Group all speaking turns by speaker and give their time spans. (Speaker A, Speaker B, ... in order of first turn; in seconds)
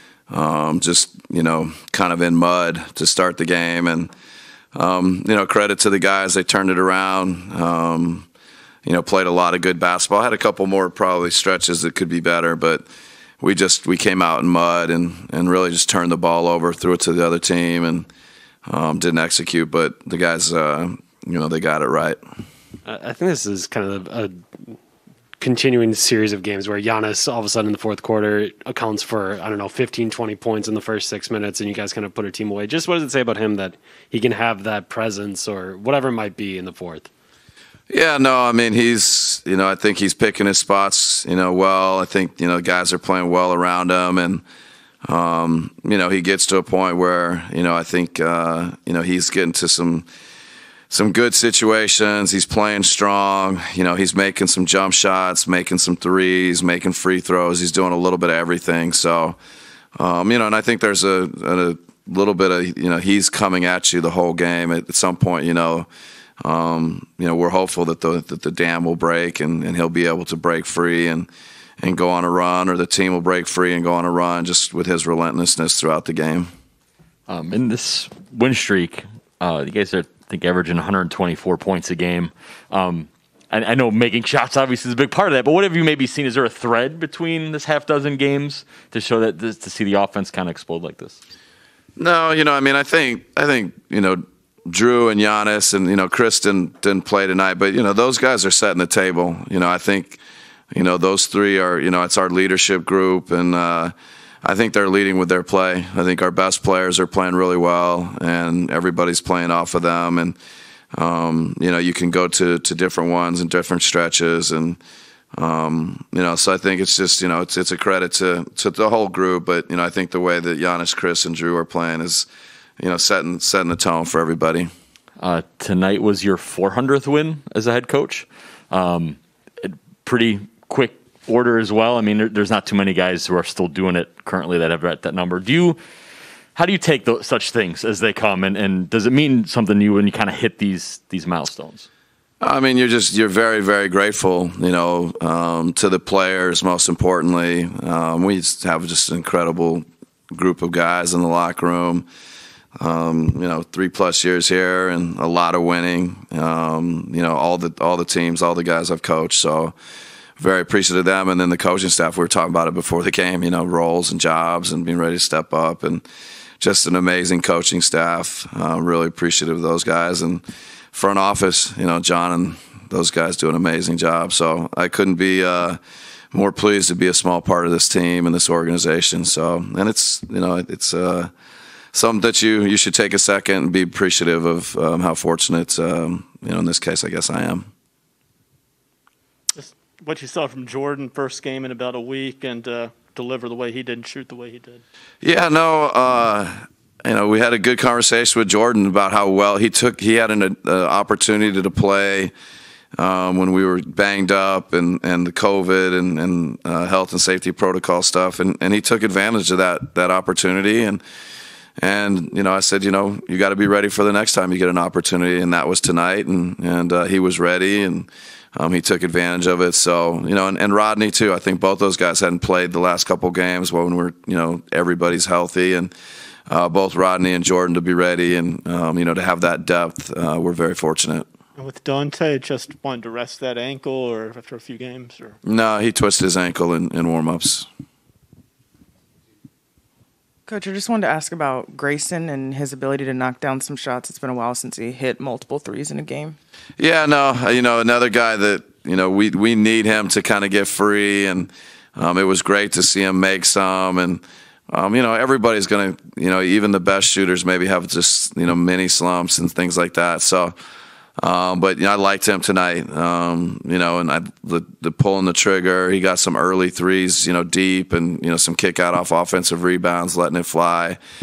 Speaker A: 0.3-4.1, 4.7-8.3, 8.8-12.8, 13.4-18.1, 18.6-22.2, 37.9-44.4, 45.0-50.0, 50.9-59.4, 59.9-65.9, 66.4-71.3, 71.8-76.5, 92.0-100.2, 100.7-110.3, 110.9-114.8, 115.3-122.2, 122.8-124.7, 142.4-152.1, 152.8-159.7, 160.4-166.0, 166.6-175.8, 176.3-181.3, 181.9-187.7, 195.2-202.3, 203.0-211.0, 211.8-225.9, 226.5-231.3, 235.4-237.7, 246.8-260.5, 261.2-271.0
Speaker B: 22.9-24.8, 25.4-37.1
Speaker C: 77.3-91.2, 125.2-135.8, 136.5-141.9
Speaker D: 189.6-194.8, 231.8-233.6
Speaker E: 240.5-246.4